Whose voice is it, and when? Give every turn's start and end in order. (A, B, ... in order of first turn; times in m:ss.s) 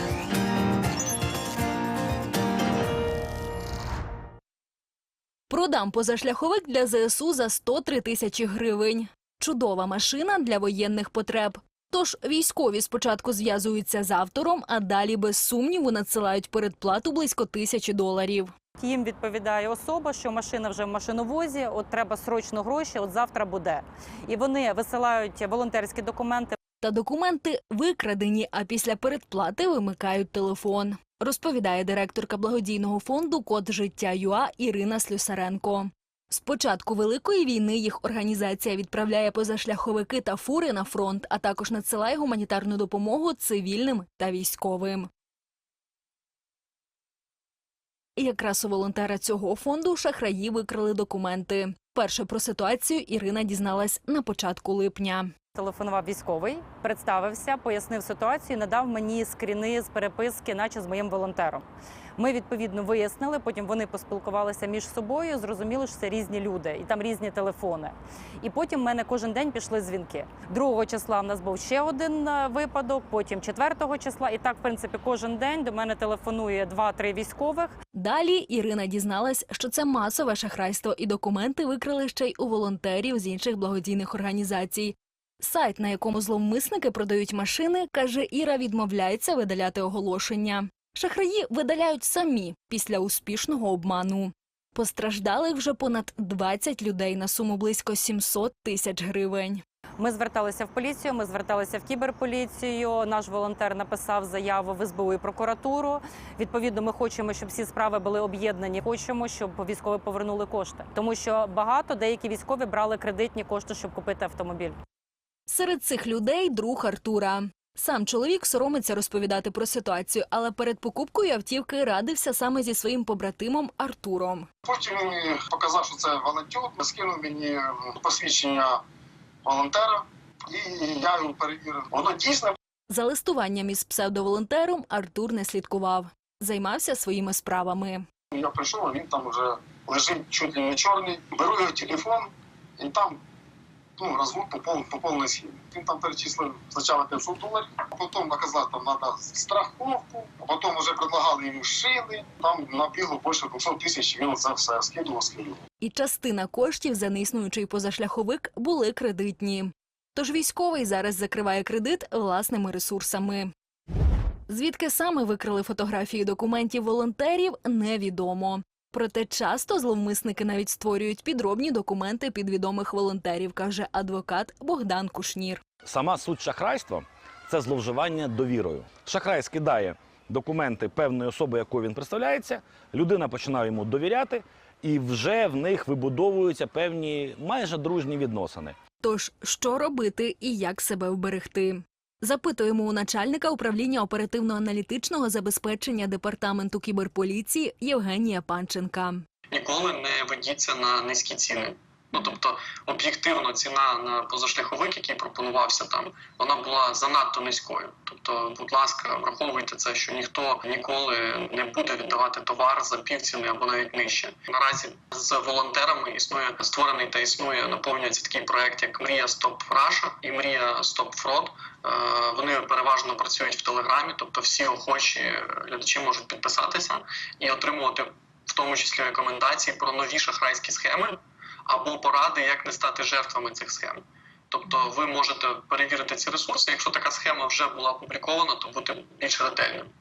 0:05.5-0:18.5 A
0:18.8-0:26.6 B
0:26.8-0:45.1 A
0:48.2-0:55.3 A
0:55.6-1:17.8 B
1:17.9-1:39.6 A
1:40.0-1:54.8 B
1:55.5-2:04.4 A
2:04.7-2:08.8 C
2:09.4-2:12.5 C
2:12.9-2:18.0 A
2:18.3-2:23.2 C
2:24.0-2:35.6 C
2:35.8-2:43.5 A
2:44.5-2:55.6 A
2:55.8-3:08.8 D
3:09.0-3:19.2 A
3:19.5-3:59.9 E